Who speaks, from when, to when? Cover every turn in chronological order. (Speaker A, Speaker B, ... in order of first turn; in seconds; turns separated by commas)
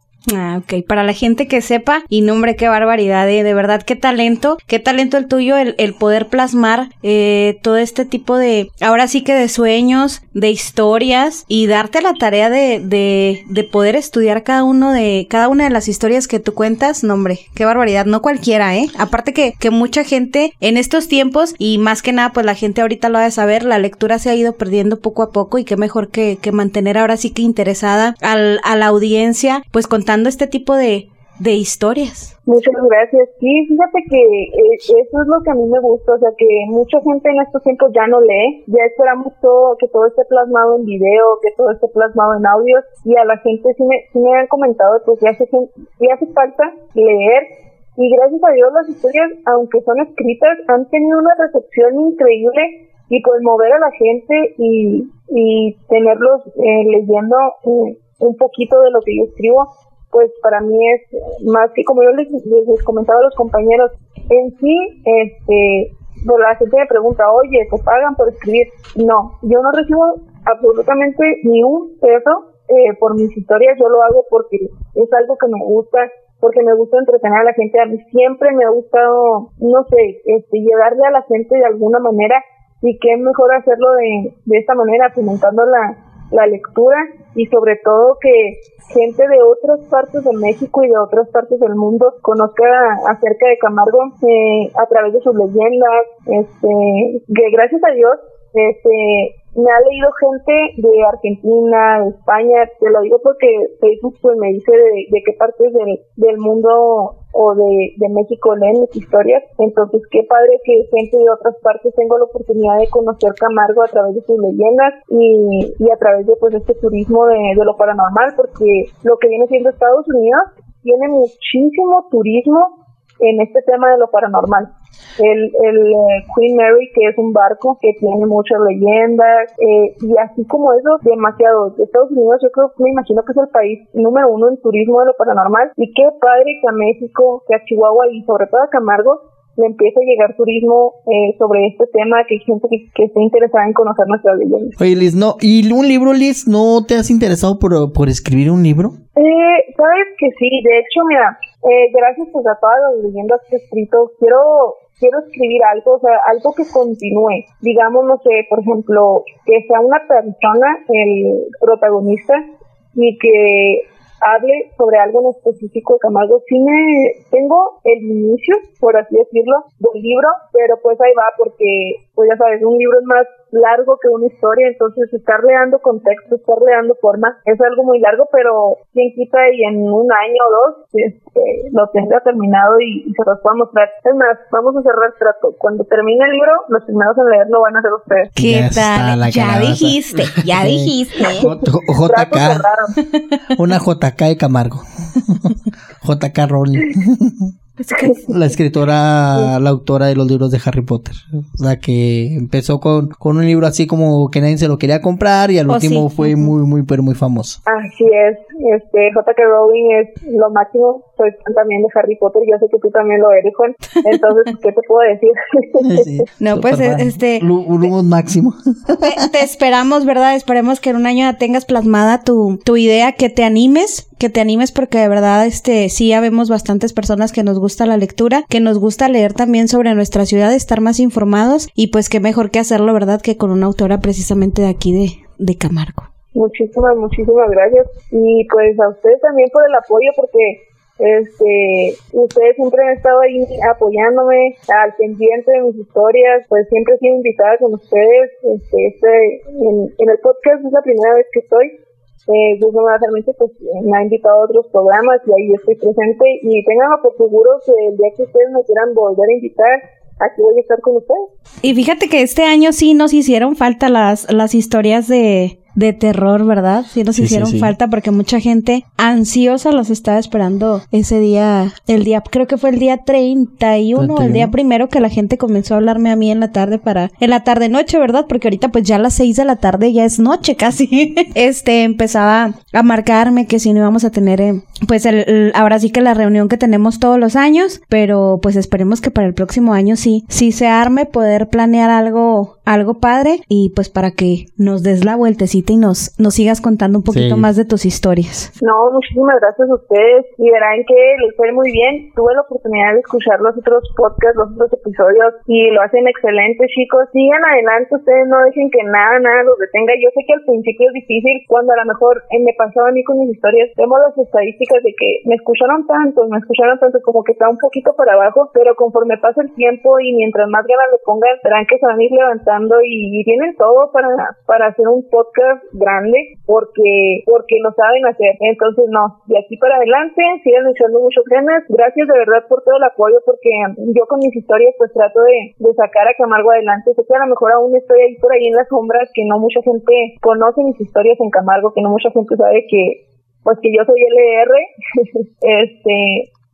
Speaker A: 0.3-32.3, Speaker B: 32.5-144.7, Speaker C: 144.8-149.0, Speaker B: 149.2-162.4, Speaker B: 162.9-188.3, Speaker A: 188.4-191.5, Speaker C: 188.4-192.7, Speaker B: 192.1-192.9, Speaker C: 193.5-197.5, Speaker A: 197.8-198.3, Speaker C: 198.2-207.6, Speaker A: 205.7-206.5, Speaker B: 207.7-216.0, Speaker C: 215.8-219.2, Speaker A: 216.4-217.4, Speaker A: 219.0-236.1, Speaker B: 236.3-251.7, Speaker B: 252.3-261.2, Speaker A: 261.6-298.5, Speaker C: 267.1-267.7, Speaker C: 273.9-274.5, Speaker C: 297.1-297.5, Speaker B: 298.6-346.3